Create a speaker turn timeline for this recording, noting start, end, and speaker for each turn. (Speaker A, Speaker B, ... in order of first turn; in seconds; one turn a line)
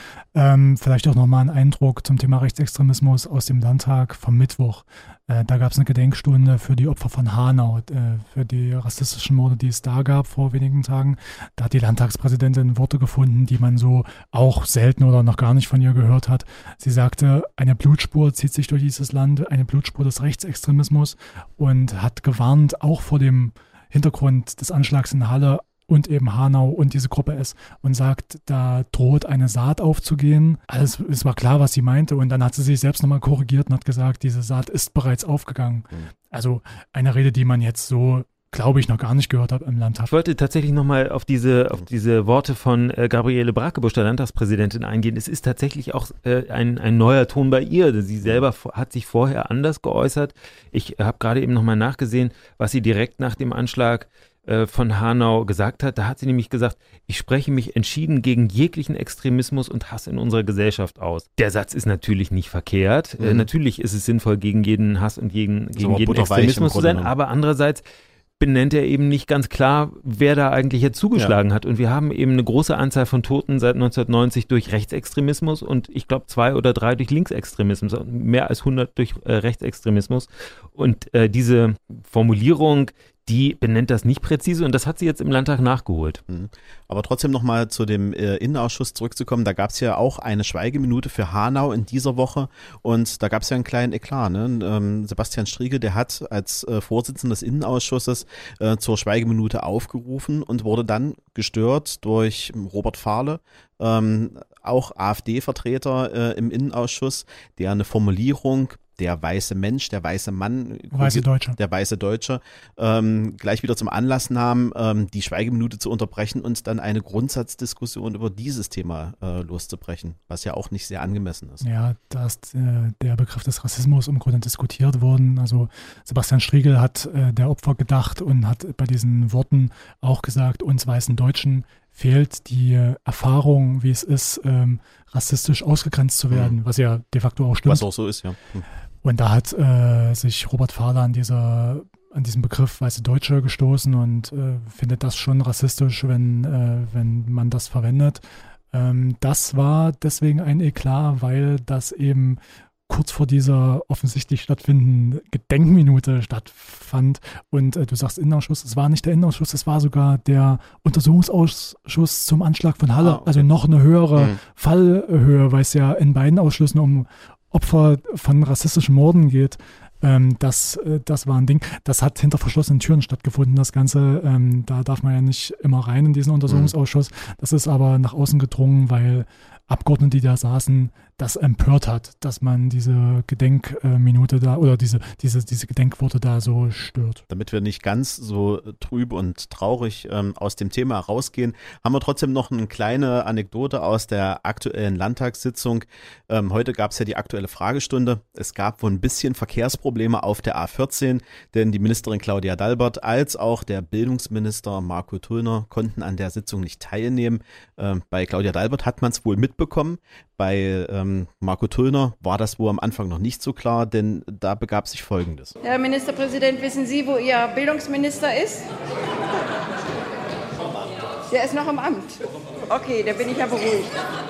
Speaker A: 0.3-40.1
Speaker B: 40.1-67.8
Speaker C: 63.2-63.5
Speaker C: 65.8-67.1
Speaker B: 68.4-86.2
Speaker C: 86.3-121.6
Speaker A: 110.9-111.6
Speaker A: 121.6-137.9
Speaker C: 136.3-136.6
Speaker C: 137.7-138.7
Speaker A: 139.0-187.2
Speaker C: 163.0-163.5
Speaker C: 176.5-176.7
Speaker C: 187.3-215.6
Speaker D: 215.7-218.6
Speaker D: 221.4-222.1
Speaker D: 222.8-223.9